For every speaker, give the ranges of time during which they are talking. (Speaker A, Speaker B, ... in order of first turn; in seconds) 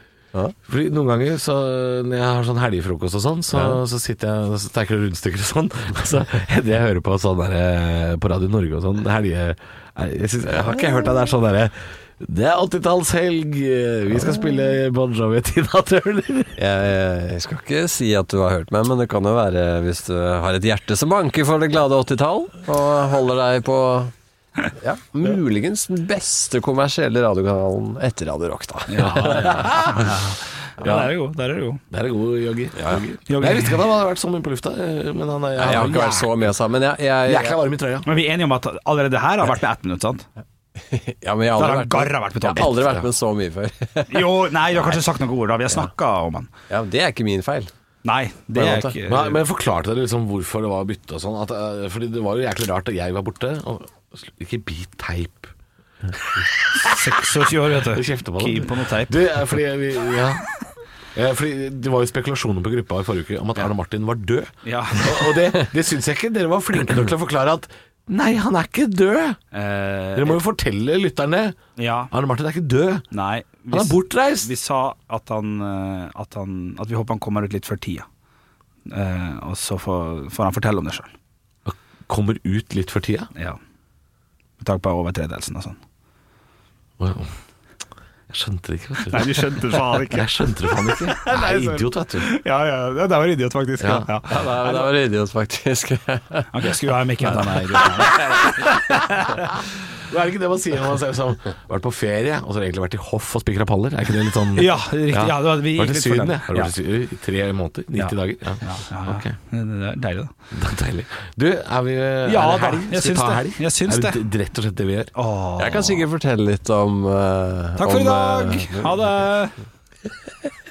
Speaker A: 0.7-16.6, 29.0-30.2, 30.8-31.1, 31.9-36.5, 37.2-38.1, 42.5-43.1, 49.0-55.5, 56.1-60.5, 61.1-69.4, 70.1-71.6, 72.1-73.0, 73.7-74.5, 81.6-83.3, 87.0-87.3, 88.3-92.3, 93.8-94.1, 99.4-109.3, 110.5-115.1
Speaker B: 16.6-24.1, 24.8-30.1, 32.8-33.0, 35.6-37.5, 40.8-45.0, 46.7-47.7, 48.5-49.0, 94.3-96.5, 97.3-99.2, 115.6-119.0
Speaker C: 28.9-31.8, 33.3-33.8, 38.0-40.3, 41.5-42.8, 44.1-46.5, 48.0-49.4, 56.7-59.2, 64.6-65.4, 69.5-70.4, 71.8-72.1, 73.1-78.0, 78.9-81.1, 84.6-85.8, 89.0-94.9, 96.5-99.5, 104.5-106.7, 108.0-110.3, 112.2-114.2, 115.1-116.0, 117.8-119.5